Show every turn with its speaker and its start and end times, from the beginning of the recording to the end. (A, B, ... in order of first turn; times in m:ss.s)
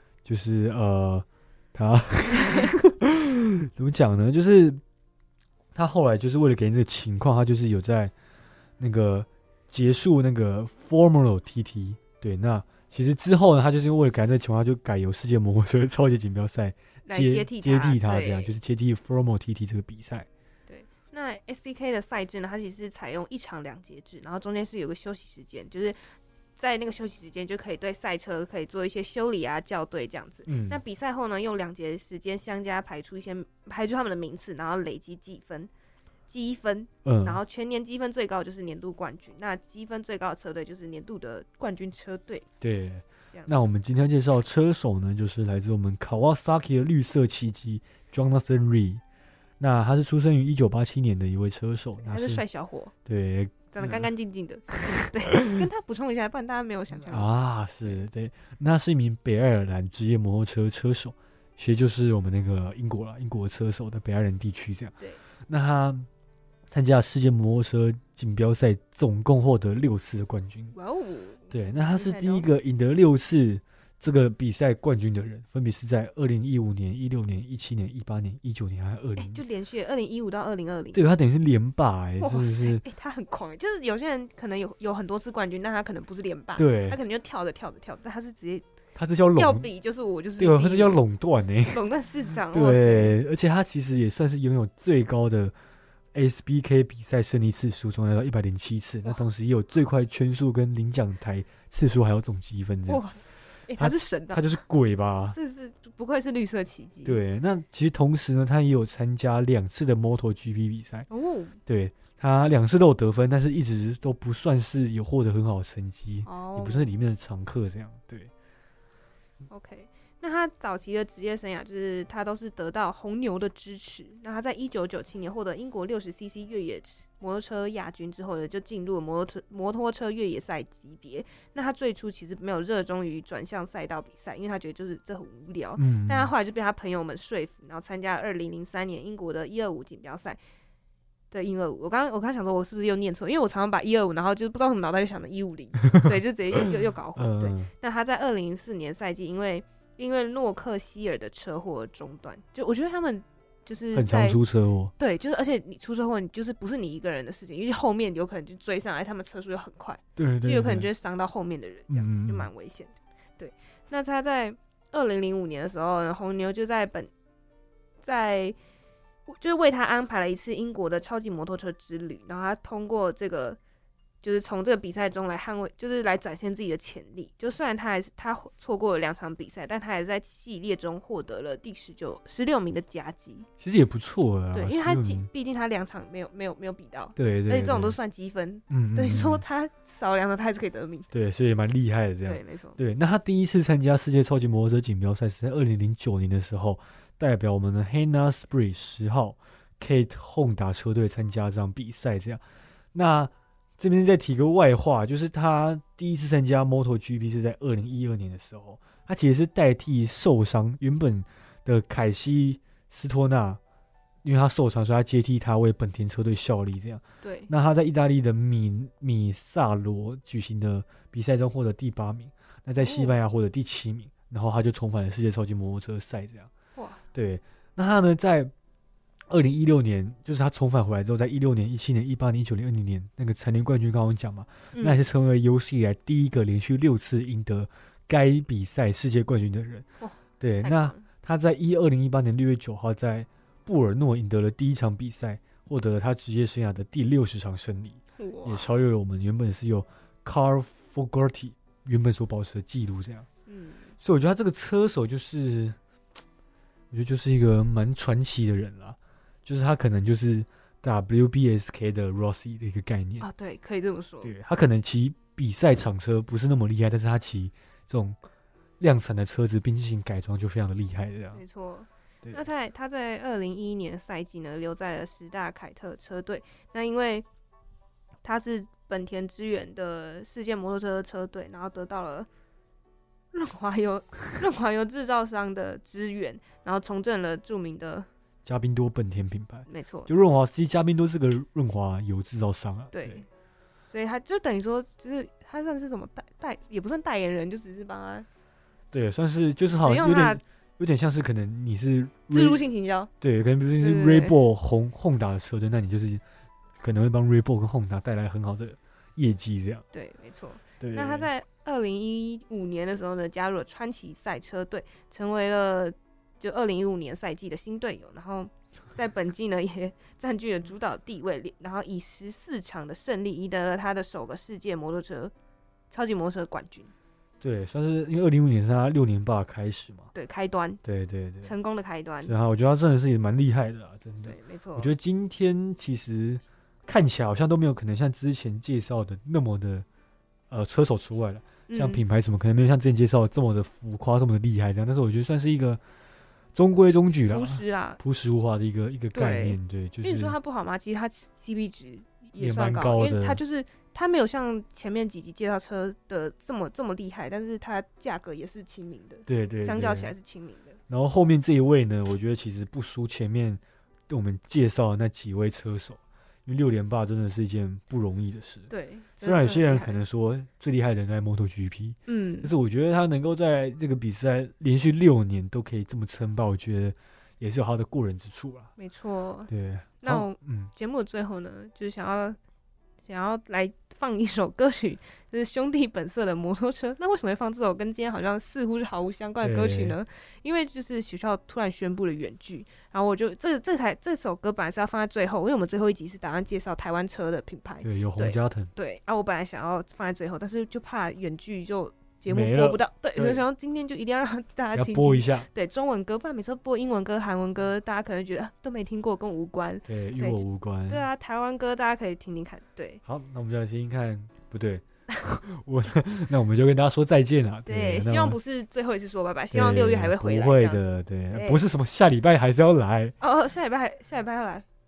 0:00.2-0:04.8 A
0:05.7-0:08.1 A
0:08.8-0:20.3 A
0:17.0-0:18.5 B
0:20.7-0:26.0 B
0:26.6-0:35.7 B
0:30.5-0:30.8 A
0:36.3-0:42.5 B
0:37.0-0:37.4 A
0:42.6-0:49.0 A
0:49.6-0:52.4 A
0:52.0-0:52.9 B
0:53.0-0:54.0 A
0:53.7-0:57.3 B
0:57.1-1:04.9 A
1:05.5-1:06.1 A
1:06.7-1:10.7 A
1:10.7-1:12.5 B
1:11.5-1:19.4 A
1:19.2-1:21.1 B
1:20.9-1:22.8 A
1:22.2-1:28.6 B
1:26.6-1:27.0 A
1:29.0-1:29.7 A
1:29.3-1:31.0 B
1:30.4-1:31.8 A
1:31.7-1:33.2 B
1:32.5-1:35.5 A
1:36.1-1:43.0 A
1:42.9-1:44.5 B
1:43.8-1:45.4 A
1:45.3-1:47.2 B
1:47.0-1:51.1 A
1:51.1-1:51.6 B
1:51.6-1:58.3 A
1:56.2-1:56.9 B
1:59.5-2:20.4 B
2:15.8-2:16.3 A
2:21.3-2:34.4 B
2:27.2-2:27.7 A
2:33.9-2:34.9 A
2:35.0-2:47.1 B
2:40.2-2:40.9 A
2:41.9-2:42.5 A
2:48.0-2:48.6 B
2:49.3-2:53.6 B
2:54.2-3:03.5 B
3:03.6-3:05.3 A
3:04.5-3:11.1 B
3:07.2-3:08.0 A
3:08.7-3:09.4 A
3:11.1-3:22.4 A
3:12.2-3:12.8 B
3:22.9-3:33.6 A
3:34.2-3:46.5 A
3:37.2-3:37.5 B
3:42.8-3:43.2 B
3:46.7-3:47.0 B
3:47.1-3:48.5 A
3:49.3-3:59.8 A
3:54.7-3:55.0 B
4:00.0-4:01.0 B
4:00.4-4:13.3 A
4:08.2-4:08.7 B
4:13.5-4:13.9 B
4:14.0-4:15.8 A
4:16.9-4:23.3 A
4:23.2-4:24.3 B
4:24.2-4:28.2 A
4:28.8-4:31.4 A
4:31.3-4:37.2 B
4:38.2-4:42.3 B
4:43.3-4:48.1 B
4:48.4-4:53.2 A
4:49.7-4:50.1 B
4:52.9-4:53.2 B
4:53.9-4:58.3 B
4:58.9-5:02.7 A
4:59.7-5:00.4 B
5:02.3-5:03.1 B
5:03.2-5:06.2 A
5:03.8-5:04.3 B
5:06.8-5:09.8 A
5:09.9-5:25.3 B
5:10.8-5:11.3 A
5:25.9-5:26.9 B
5:27.4-5:30.1 A
5:30.1-5:30.8 B
5:30.8-5:31.5 A
5:31.4-5:32.3 B
5:32.2-5:39.8 A
5:34.2-5:34.9 B
5:40.5-5:45.8 A
5:41.7-5:42.0 B
5:46.5-5:50.4 A
5:47.3-5:48.0 B
5:49.1-6:00.8 B
5:52.4-5:53.4 A
5:59.3-6:00.1 A
6:00.9-6:08.7 A
6:08.7-6:10.0 B
6:09.2-6:18.7 A
6:12.1-6:12.5 B
6:18.8-6:19.5 B
6:19.5-6:20.7 A
6:20.0-6:22.4 B
6:23.0-6:53.0 B
6:29.4-6:30.0 A
6:37.8-6:38.7 A
6:42.3-6:43.4 A
6:44.7-6:45.5 A
6:49.8-6:51.0 A
6:53.0-6:58.4 A
6:57.7-7:01.6 B
6:59.5-7:03.1 A
7:03.2-7:04.6 B